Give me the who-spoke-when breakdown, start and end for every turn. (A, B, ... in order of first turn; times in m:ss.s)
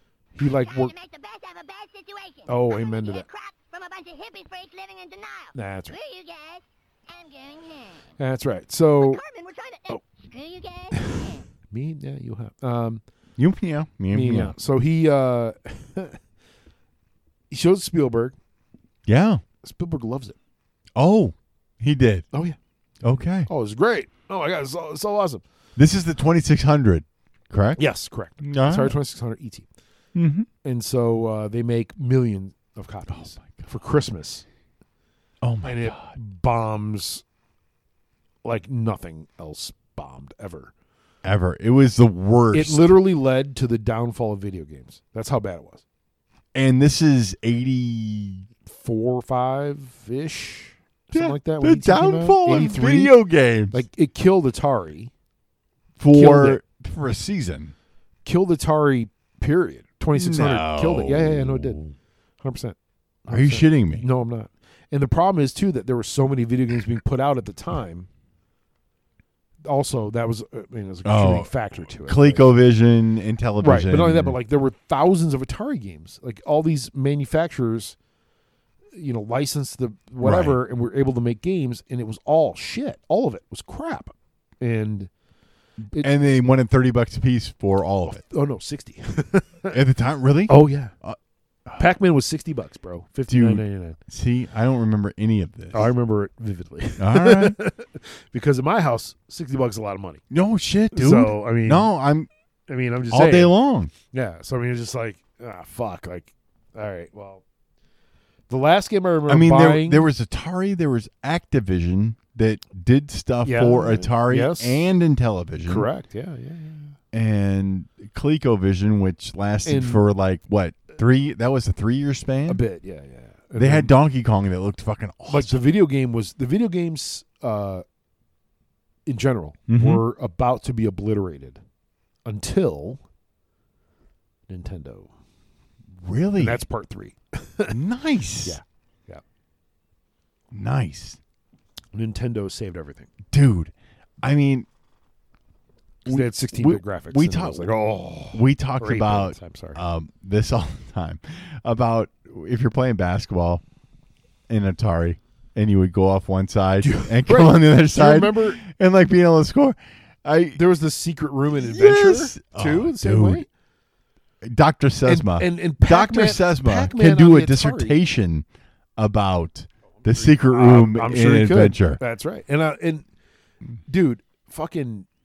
0:00.4-0:00.9 A
0:00.4-0:08.0 B
0:02.5-0:03.3 A
0:05.6-0:06.0 A
0:08.2-0:09.2 A
0:09.0-0:11.4 B
0:11.0-0:13.0 A
0:13.4-0:14.6 C
0:14.1-0:16.2 A
0:17.5-0:18.4 A
0:19.1-0:19.4 C
0:19.6-0:20.4 A
0:21.0-0:22.3 C
0:22.3-0:22.6 A
0:23.0-0:23.5 C
0:23.5-0:25.4 A
0:25.8-0:27.8 C
0:27.8-0:29.7 A
0:28.4-0:29.0 C
0:30.2-0:30.5 C
0:30.6-0:34.4 A
0:33.1-0:33.7 C
0:35.4-0:36.2 C
0:35.6-0:37.2 A
0:38.4-0:40.7 A
0:41.2-0:42.9 C
0:42.5-0:45.8 A
0:46.5-0:48.5 C
0:48.7-0:53.2 A
0:51.1-0:53.8 C
0:53.7-0:55.1 A
0:56.0-0:57.7 C
0:56.1-0:56.6 A
0:58.2-1:01.8 A
1:00.1-1:01.9 C
1:02.4-1:08.1 A
1:03.3-1:04.1 C
1:09.6-1:12.5 A
1:11.0-1:14.4 C
1:13.6-1:18.0 A
1:18.9-1:25.1 A
1:20.2-1:20.6 C
1:25.8-1:28.2 C
1:28.1-1:29.8 A
1:29.7-1:31.9 C
1:30.5-1:30.9 A
1:31.8-1:34.0 A
1:33.3-1:35.9 C
1:35.7-1:40.2 A
1:37.0-1:37.6 C
1:40.3-1:42.3 C
1:40.9-1:41.9 A
1:42.7-1:43.6 A
1:43.1-1:43.9 C
1:44.1-1:47.4 A
1:48.5-1:50.1 A
1:49.3-1:55.9 C
1:53.4-1:54.9 A
1:55.6-1:57.0 A
1:57.1-2:02.6 C
1:59.6-2:00.1 A
2:02.5-2:03.9 A
2:03.6-2:05.6 C
2:05.3-2:07.8 A
2:09.1-2:11.6 A
2:09.7-2:10.0 C
2:12.2-2:13.0 A
2:14.5-2:15.1 A
2:16.0-2:16.6 C
2:16.4-2:17.8 A
2:17.7-2:18.6 C
2:18.4-2:19.2 A
2:20.5-2:21.2 C
2:21.9-2:23.1 A
2:23.3-2:24.7 C
2:26.0-2:27.7 C
2:26.1-2:29.8 A
2:28.3-2:33.6 C
2:34.5-2:40.6 C
2:36.8-2:38.6 A
2:40.6-2:43.5 A
2:41.6-2:43.4 C
2:44.4-2:48.5 C
2:45.0-2:48.0 A
2:49.0-2:52.0 C
2:50.1-2:53.1 A
2:53.9-2:55.1 A